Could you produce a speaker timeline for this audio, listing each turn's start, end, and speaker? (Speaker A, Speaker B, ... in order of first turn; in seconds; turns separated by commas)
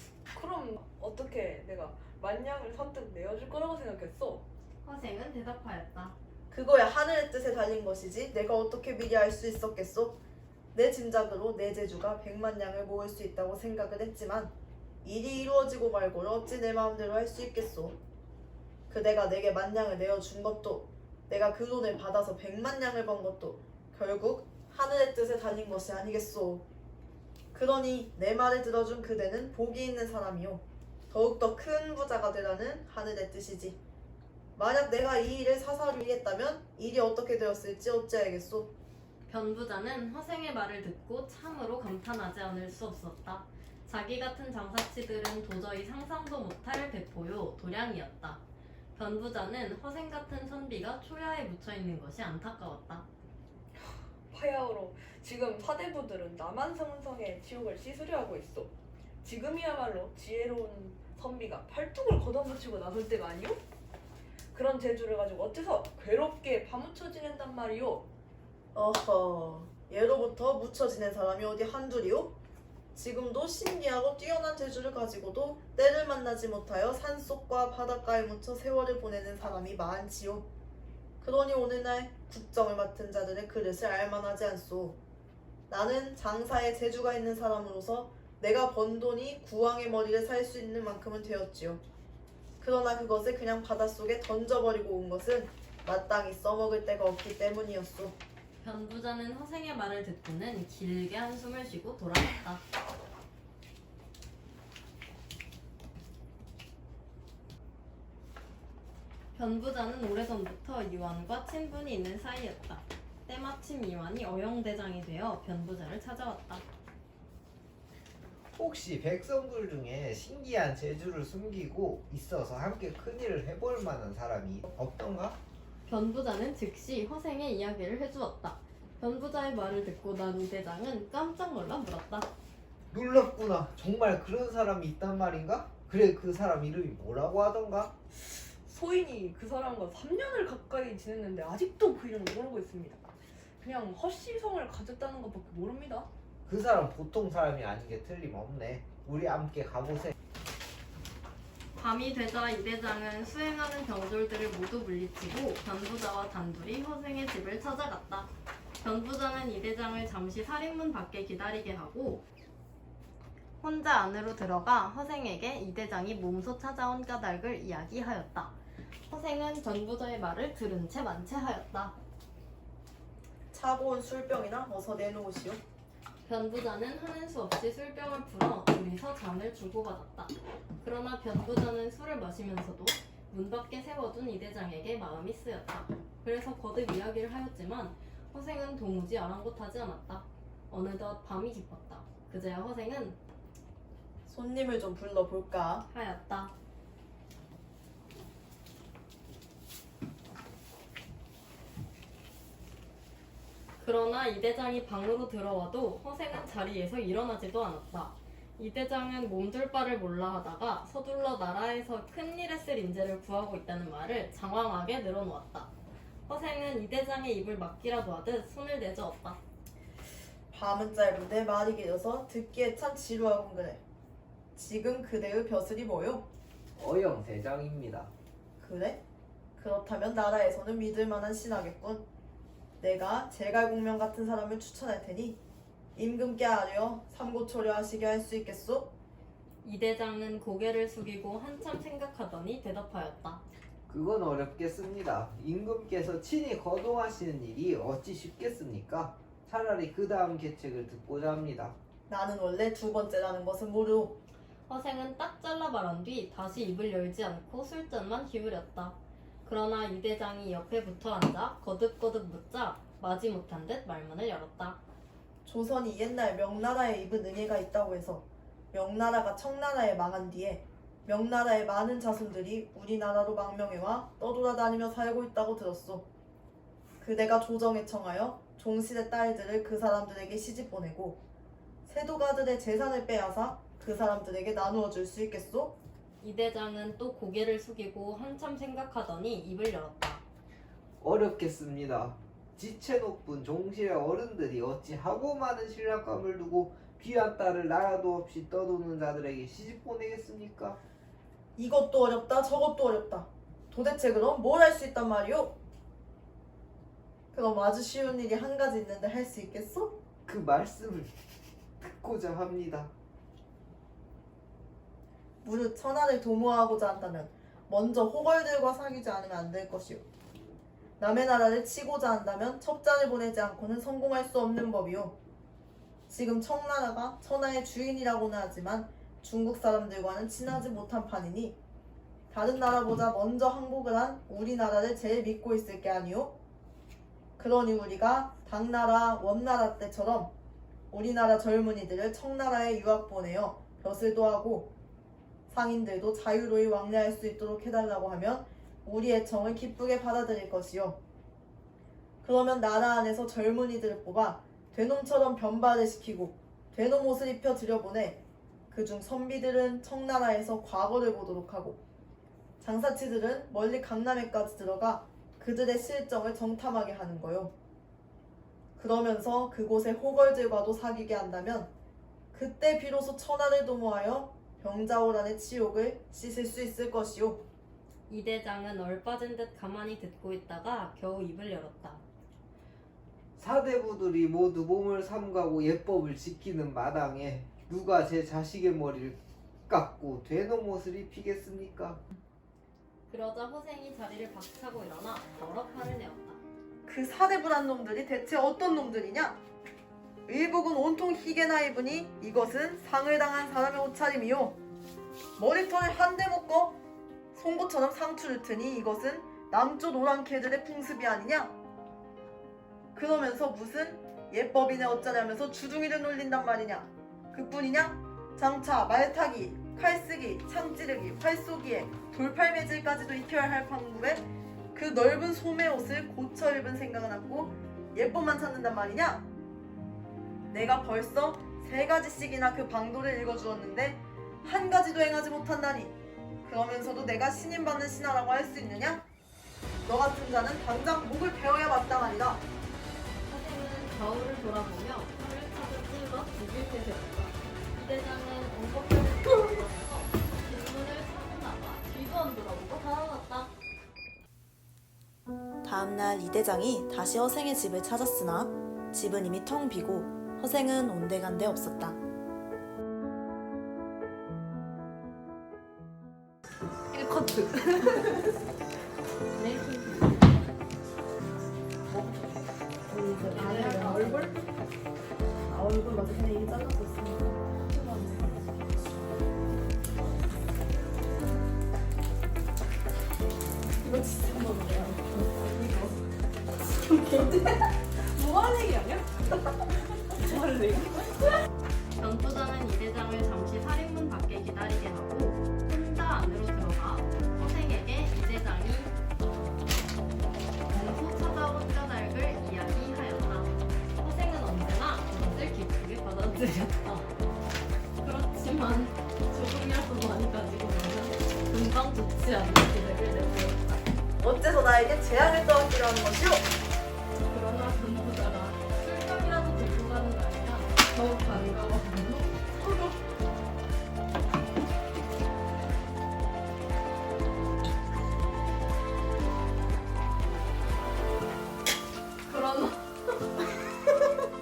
Speaker A: 0.3-4.5, Speaker B: 4.8-6.2, Speaker C: 6.5-10.2, Speaker C: 10.7-14.5, Speaker C: 15.0-18.0, Speaker C: 18.9-26.6, Speaker C: 27.5-33.8, Speaker C: 34.6-38.7, Speaker B: 39.3-48.4, Speaker B: 49.0-53.1, Speaker A: 53.8-63.6, Speaker A: 64.5-68.1, Speaker C: 68.8-72.4, Speaker C: 72.9-80.5, Speaker C: 81.2-85.0, Speaker C: 85.7-91.8, Speaker C: 92.6-98.2, Speaker B: 98.6-102.6, Speaker B: 109.3-116.6, Speaker D: 118.5-125.4, Speaker B: 125.9-132.3, Speaker D: 132.9-137.9, Speaker A: 138.2-143.1, Speaker A: 143.6-146.1, Speaker D: 146.5-150.1, Speaker B: 151.8-158.3, Speaker B: 158.8-162.2, Speaker B: 163.6-168.6, Speaker B: 169.1-171.9, Speaker C: 173.5-175.6, Speaker B: 176.3-193.2, Speaker C: 194.3-195.9, Speaker B: 195.9-196.5, Speaker B: 203.8-215.7, Speaker B: 216.3-219.4, Speaker C: 220.5-223.8, Speaker C: 224.6-226.3, Speaker D: 226.8-228.1, Speaker C: 228.6-229.0, Speaker C: 229.6-232.1, Speaker C: 232.8-235.4, Speaker C: 236.0-238.9, Speaker B: 239.6-243.4, Speaker D: 243.9-251.8, Speaker C: 252.1-254.2, Speaker B: 254.7-264.8, Speaker C: 265.4-276.1, Speaker C: 277.0-281.2, Speaker C: 281.9-285.8, Speaker B: 286.2-290.2, Speaker D: 291.0-300.8, Speaker C: 301.6-305.6, Speaker C: 307.3-310.0, Speaker D: 310.3-311.1, Speaker D: 311.8-312.9, Speaker C: 315.4-320.0, Speaker C: 321.0-325.2, Speaker C: 326.1-331.6, Speaker C: 332.3-336.3, Speaker C: 337.4-340.3, Speaker C: 340.9-344.7, Speaker C: 345.5-351.0, Speaker C: 352.2-361.8, Speaker C: 362.6-367.5, Speaker C: 368.8-371.7, Speaker C: 372.3-377.4, Speaker B: 378.1-382.0, Speaker D: 383.4-392.0, Speaker B: 393.1-396.4, Speaker C: 396.9-399.4, Speaker C: 400.3-404.6, Speaker C: 405.4-406.8, Speaker C: 407.3-411.5, Speaker C: 412.9-429.3, Speaker C: 430.5-439.0, Speaker C: 439.9-442.4, Speaker B: 443.3-453.5, Speaker E: 455.6-462.0, Speaker A: 466.9-468.4, Speaker A: 471.9-474.3, Speaker B: 473.4-474.3, Speaker C: 473.5-473.9, Speaker C: 475.5-477.3, Speaker A: 477.3-478.7, Speaker A: 483.8-486.0, Speaker A: 486.8-491.4, Speaker B: 492.0-499.0, Speaker B: 500.7-507.1, Speaker B: 508.0-513.8, Speaker C: 514.2-516.5, Speaker B: 517.3-523.0, Speaker B: 532.2-533.6